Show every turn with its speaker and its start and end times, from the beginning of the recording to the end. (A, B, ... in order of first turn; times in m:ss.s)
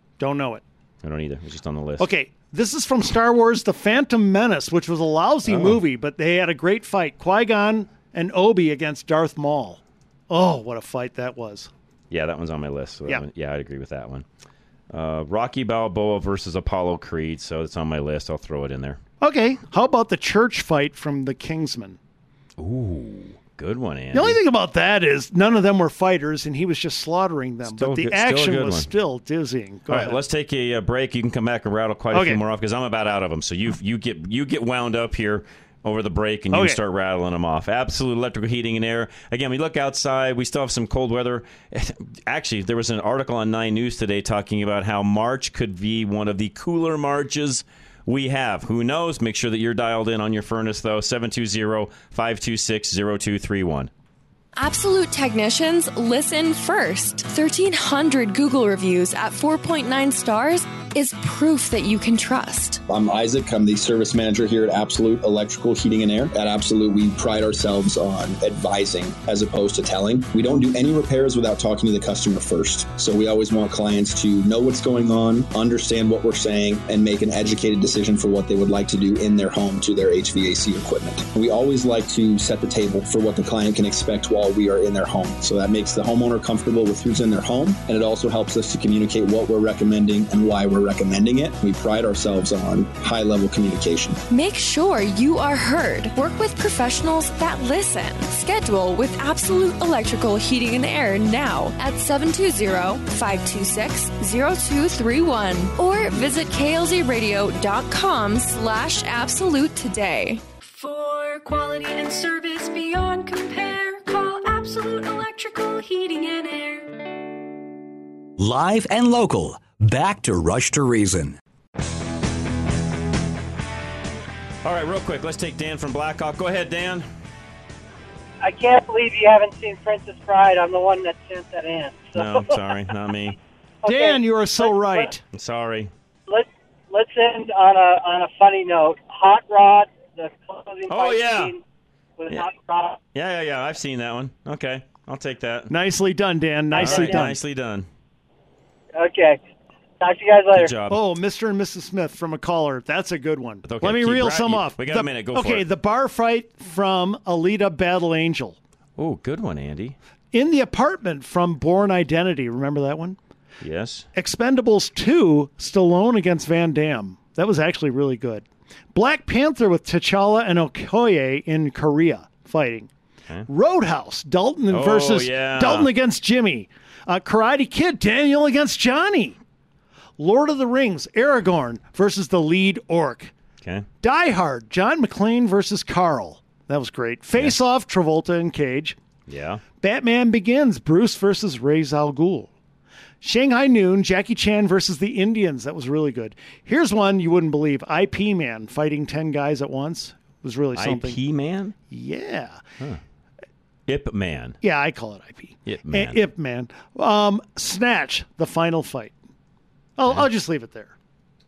0:00.2-0:00.6 A
0:01.0-0:02.1 B
0:02.0-0:11.7 A
0:05.4-0:05.8 B
0:12.1-0:14.2 B
0:14.9-0:19.0 B
0:19.2-0:22.0 A
0:22.6-0:24.4 B
0:24.1-0:30.2 A
0:27.6-0:28.9 B
0:29.9-0:53.9 B
0:32.1-0:32.4 A
0:36.5-0:36.8 A
0:54.6-1:02.8 C
1:02.9-1:34.2 D
1:34.3-1:50.4 C
1:50.6-1:57.0 E
1:58.4-2:01.4 F
2:04.6-2:07.0 B
2:08.4-2:12.4 G
2:12.1-2:13.4 B
2:13.8-2:15.1 G
2:13.8-2:15.2 A
2:15.3-2:15.9 B
2:16.3-2:21.6 G
2:20.9-2:21.5 B
2:22.2-2:23.0 G
2:23.1-2:25.7 B
2:25.7-2:27.4 A
2:26.7-2:27.1 G
2:26.7-2:27.9 B
2:28.9-2:29.4 G
2:30.0-2:30.7 G
2:30.5-2:31.0 B
2:30.9-2:38.6 A
2:33.6-2:35.6 B
2:39.0-2:40.0 B
2:40.3-2:43.2 A
2:43.6-2:44.0 B
2:44.2-2:52.9 A
2:53.5-2:59.4 A
2:54.7-2:55.9 B
3:00.2-3:03.3 A
3:04.0-3:09.0 A
3:09.3-3:09.6 B
3:09.8-3:12.5 A
3:13.2-3:21.2 A
3:20.7-3:21.7 B
3:21.9-3:22.6 A
3:23.9-3:24.6 B
3:24.6-3:29.1 A
3:25.7-3:26.2 B
3:30.0-3:30.9 A